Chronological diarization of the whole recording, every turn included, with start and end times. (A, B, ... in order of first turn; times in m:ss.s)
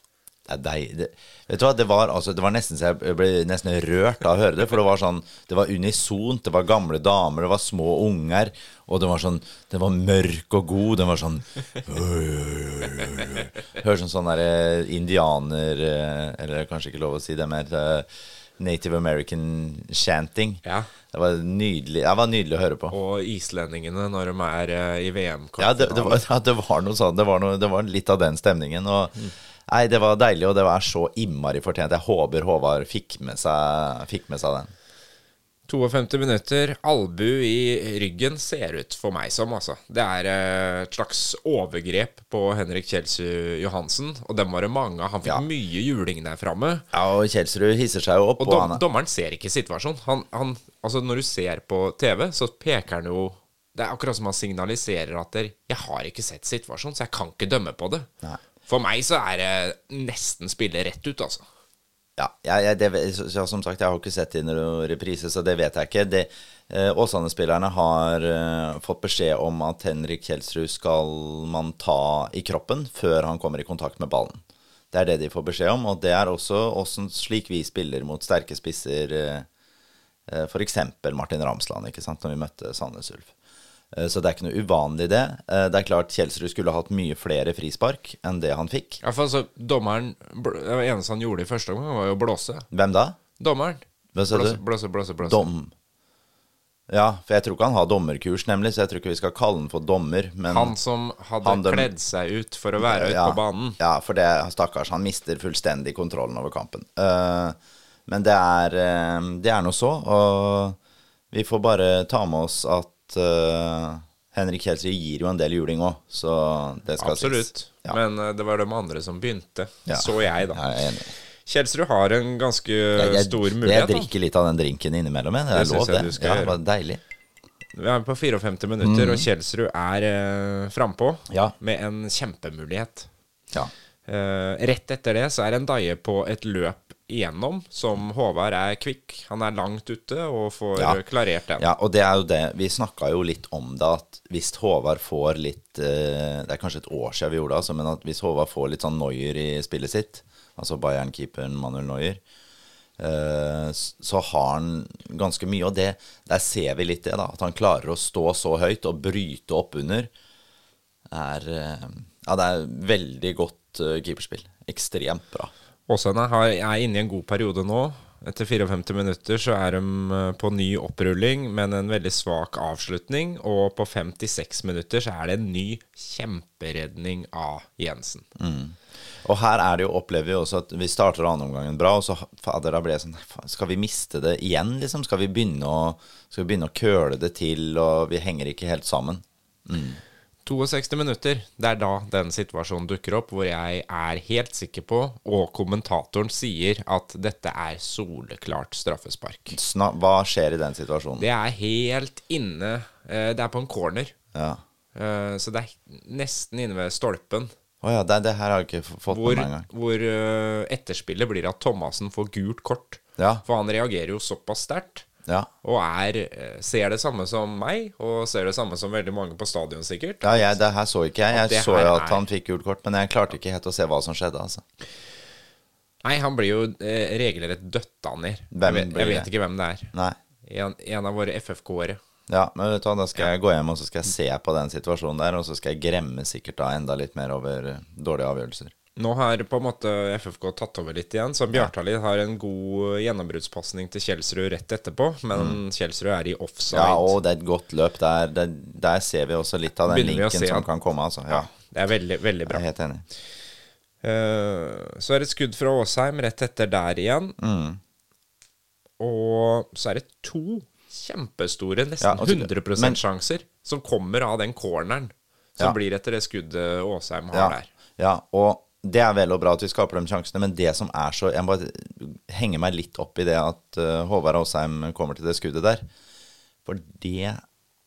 0:00.5-0:23.0 A
0:20.6-0:20.9 B
0:22.9-0:26.2 B
0:25.6-0:29.1 A
0:29.7-0:34.7 A
0:35.7-0:46.8 B
0:46.9-0:48.8 A
0:48.4-0:58.1 B
0:58.6-1:01.4 B
1:02.2-1:14.4 A
1:14.9-1:19.5 A
1:20.3-1:23.3 A
1:23.9-1:29.0 A
1:29.0-1:32.7 B
1:32.7-1:33.2 A
1:33.4-1:35.5 B
1:34.2-1:34.6 A
1:35.2-1:35.7 A
1:36.9-1:40.7 A
1:40.5-1:43.8 B
1:41.4-1:41.9 A
1:42.8-1:50.8 A
1:51.3-1:58.0 A
1:57.0-2:00.6 B
1:59.9-2:01.1 A
2:01.4-2:04.1 B
2:03.0-2:07.0 A
2:05.5-2:06.6 B
2:07.8-2:13.1 B
2:08.8-2:09.3 A
2:11.3-2:11.6 A
2:14.1-2:21.6 B
2:21.6-2:32.2 A
2:33.0-2:40.1 A
2:41.1-2:45.5 A
2:45.9-2:58.3 B
2:58.4-3:10.0 A
3:10.5-3:19.6 B
3:19.5-3:21.3 A
3:21.2-3:24.2 B
3:24.3-3:24.6 A
3:25.0-3:27.5 B
3:27.8-3:29.7 A
3:29.1-3:35.1 B
3:33.2-3:33.4 A
3:35.6-3:40.6 B
3:40.2-3:44.6 A
3:41.3-3:42.2 B
3:46.0-3:49.9 B
3:48.5-3:49.3 A
3:50.4-3:52.0 B
3:52.3-3:58.7 A
3:59.0-4:07.2 B
4:06.7-4:11.5 A
4:09.9-4:10.7 B
4:11.3-4:12.6 B
4:12.5-4:13.0 A
4:14.0-4:17.4 B
4:17.4-4:17.8 A
4:19.0-4:27.7 B
4:22.0-4:23.0 A
4:27.3-4:35.8 A
4:36.7-4:37.4 A